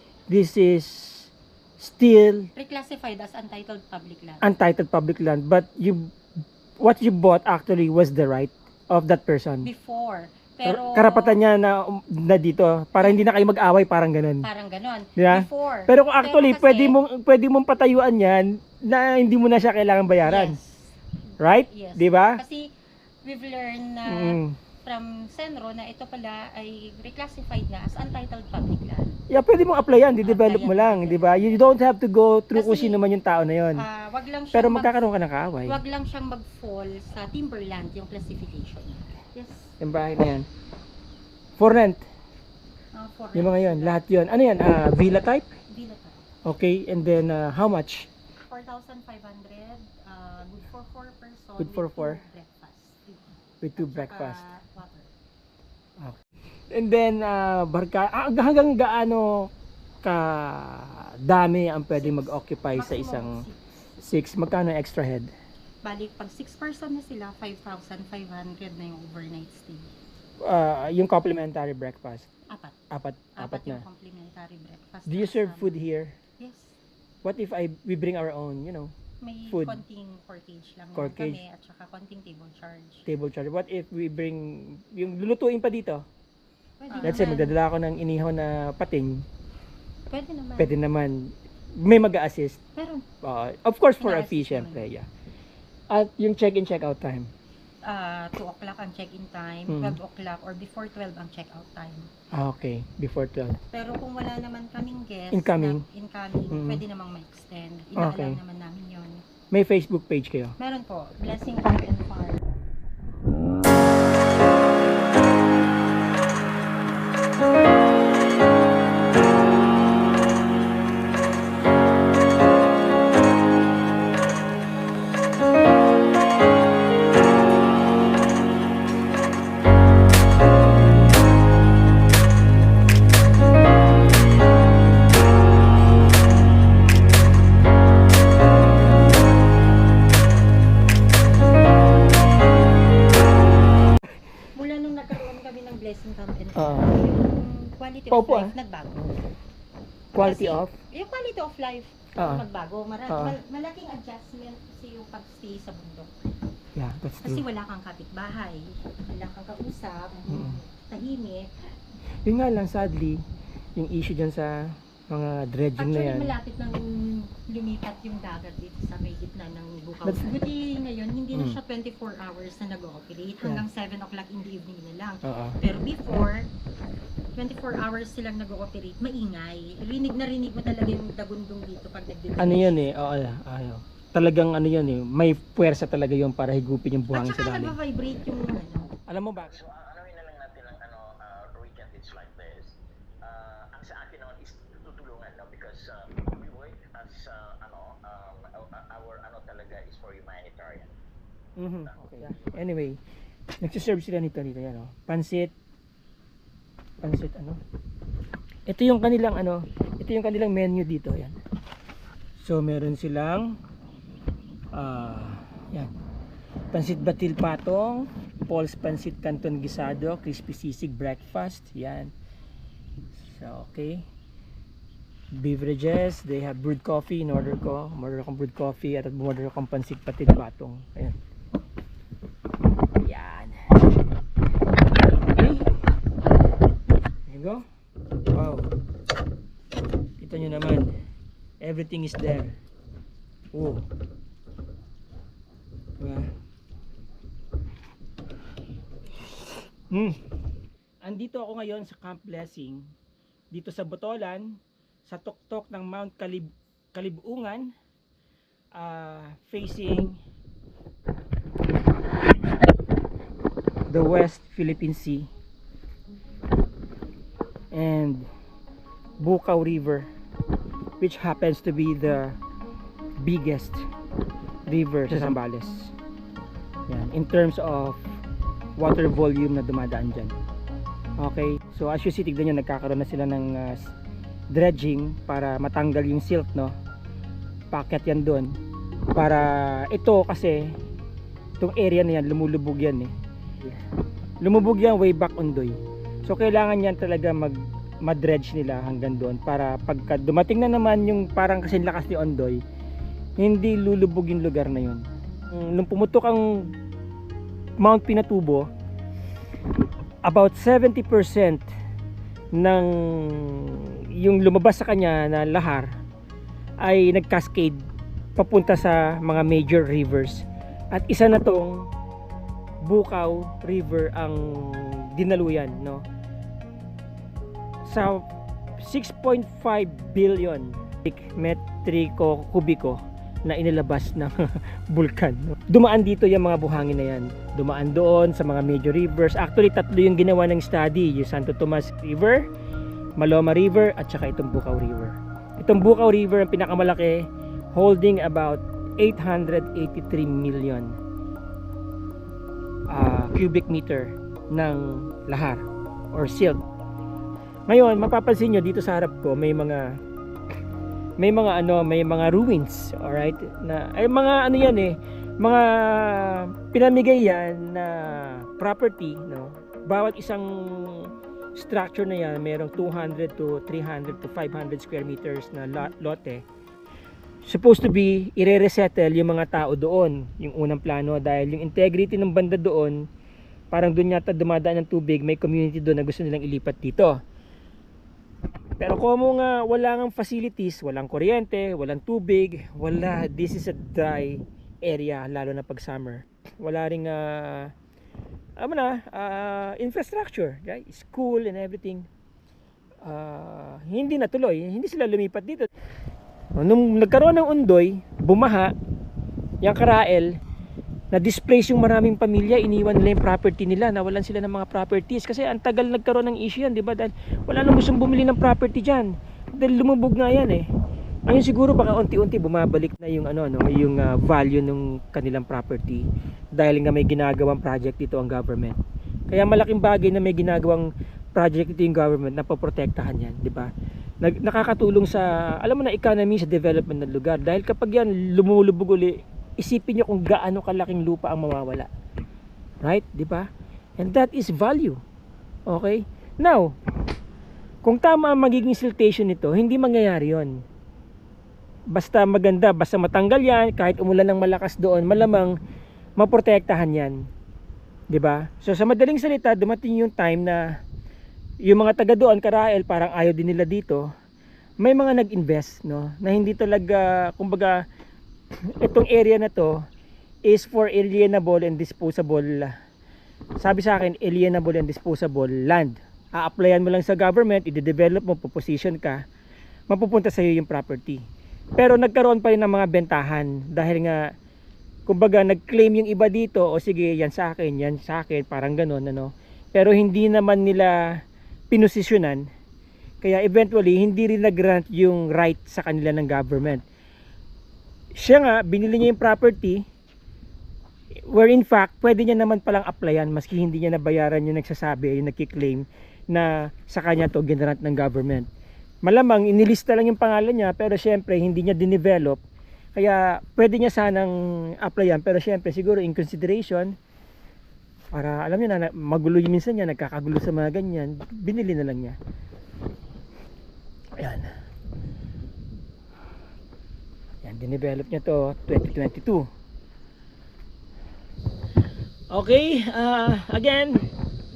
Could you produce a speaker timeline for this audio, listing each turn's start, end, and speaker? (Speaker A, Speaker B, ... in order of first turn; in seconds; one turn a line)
Speaker A: 0.3-2.5
Speaker B: 2.5-4.5
Speaker A: 4.4-6.2
Speaker A: 6.8-9.7
Speaker B: 9.6-11.4
Speaker A: 10.7-14.5
Speaker B: 13.0-13.3
Speaker B: 14.4-17.0
Speaker A: 15.2-20.6
Speaker B: 20.2-20.9
Speaker A: 21.4-22.4
Speaker B: 21.5-22.7
Speaker B: 23.2-29.2
Speaker A: 24.1-24.6
Speaker A: 29.3-33.9
Speaker B: 30.2-31.7
Speaker B: 32.5-33.0
Speaker B: 33.7-35.1
Speaker A: 34.5-35.8
Speaker B: 35.7-39.8
Speaker A: 39.8-40.5
Speaker A: 41.6-42.0
Speaker B: 43.0-44.1
Speaker A: 43.4-45.5
Speaker B: 45.7-46.3
Speaker A: 46.4-48.1
Speaker B: 48.4-55.1
Speaker A: 51.6-52.2
Speaker A: 53.6-54.4
Speaker A: 56.7-59.5
Speaker A: 60.0-63.4
Speaker B: 61.9-63.8
Speaker A: 64.0-65.3
Speaker B: 65.8-69.9
Speaker A: 70.4-72.3
Speaker B: 72.5-72.8
Speaker A: 72.9-73.8
Speaker B: 73.4-75.8
Speaker A: 75.1-76.2
Speaker B: 76.4-76.8
Speaker A: 77.2-78.9
Speaker B: 79.2-83.1
Speaker A: 79.5-79.8
Speaker A: 81.0-81.4
Speaker A: 83.1-86.0
Speaker B: 86.8-87.5
Speaker A: 87.0-89.2
Speaker B: 90.1-90.8
Speaker A: 90.6-92.6
Speaker B: 92.8-93.0
Speaker A: 93.2-95.1
Speaker B: 94.0-94.8
Speaker A: 95.9-97.3
Speaker B: 97.8-102.1
Speaker A: 99.7-100.0
Speaker A: 102.3-103.6
Speaker B: 103.7-109.2
Speaker A: 105.3-105.8
Speaker A: 106.5-106.8
Speaker A: 108.0-108.4
Speaker A: 109.5-110.6
Speaker B: 110.6-112.4
Speaker B: 144.5-149.1
Speaker A: 146.6-146.9
Speaker A: 148.1-148.6
Speaker A: 150.2-150.7
Speaker B: 150.2-156.1
Speaker A: 152.2-152.4
Speaker A: 153.1-153.4
Speaker A: 156.8-157.4
Speaker B: 157.2-161.5
Speaker A: 160.3-160.6
Speaker A: 162.2-163.2
Speaker A: 163.8-166.4
Speaker B: 165.8-176.5
Speaker A: 170.0-170.3
Speaker A: 171.3-171.6
Speaker A: 175.2-175.6
Speaker B: 177.4-182.9
Speaker A: 182.4-187.8
Speaker B: 187.1-188.9
Speaker A: 189.1-189.6
Speaker C: 189.4-200.9
Speaker A: 201.6-203.0
Speaker C: 201.9-202.6
Speaker A: 203.6-205.5
Speaker A: 207.0-207.6
Speaker A: 208.7-211.4
Speaker A: 212.4-213.6
Speaker A: 214.7-215.9
Speaker A: 216.7-222.1
Speaker A: 223.2-224.1
Speaker A: 225.3-231.2
Speaker A: 233.0-233.8
Speaker A: 235.2-235.7
Speaker A: 237.3-237.7
Speaker A: 238.3-238.7
Speaker A: 240.2-240.9
Speaker A: 241.6-242.6
Speaker A: 243.5-243.9
Speaker A: 246.0-246.3
Speaker A: 249.9-250.2
Speaker A: 251.0-252.9
Speaker A: 253.5-257.7
Speaker A: 258.8-260.2
Speaker A: 263.9-265.3
Speaker A: 267.7-268.3
Speaker A: 269.2-270.1
Speaker A: 271.0-272.4
Speaker A: 273.2-273.9
Speaker A: 274.7-275.9
Speaker A: 276.9-278.1
Speaker A: 278.8-280.4
Speaker A: 281.2-283.9
Speaker A: 284.5-286.8
Speaker A: 287.7-288.6
Speaker A: 289.1-290.7
Speaker A: 291.6-293.8
Speaker A: 294.4-302.6
Speaker A: 303.4-306.7
Speaker A: 307.8-308.7
Speaker A: 310.2-311.6
Speaker A: 312.6-315.9
Speaker A: 316.8-317.8
Speaker A: 318.4-321.9
Speaker A: 322.9-326.1
Speaker A: 327.9-328.3
Speaker A: 328.8-342.5
Speaker A: 343.2-351.0
Speaker A: 352.9-356.6
Speaker A: 357.7-360.0
Speaker A: 361.2-376.4
Speaker A: 377.4-383.1
Speaker A: 383.7-387.2
Speaker A: 388.8-397.7
Speaker A: 398.6-402.1
Speaker A: 403.0-405.7
Speaker A: 406.6-408.7
Speaker A: 409.6-410.4
Speaker A: 411.1-420.7
Speaker A: 421.3-433.7
Speaker A: 434.2-441.9
Speaker A: 442.8-445.0
Speaker A: 445.7-446.8
Speaker A: 447.8-450.6
Speaker A: 451.9-455.6
Speaker A: 456.2-457.2
Speaker A: 458.1-460.6
Speaker A: 461.6-464.1
Speaker A: 464.8-467.8
Speaker A: 468.5-469.8
Speaker A: 470.5-472.8
Speaker A: 473.6-479.2
Speaker A: 479.9-481.2
Speaker A: 481.8-484.3
Speaker A: 485.1-491.0
Speaker A: 491.7-492.5
Speaker A: 493.2-496.8
Speaker A: 498.1-499.9
Speaker A: 501.2-508.5
Speaker A: 509.0-512.4
Speaker A: 513.0-517.0
Speaker A: 518.1-522.2
Speaker A: 524.2-524.5
Speaker A: 527.4-529.5
Speaker A: 532.3-534.0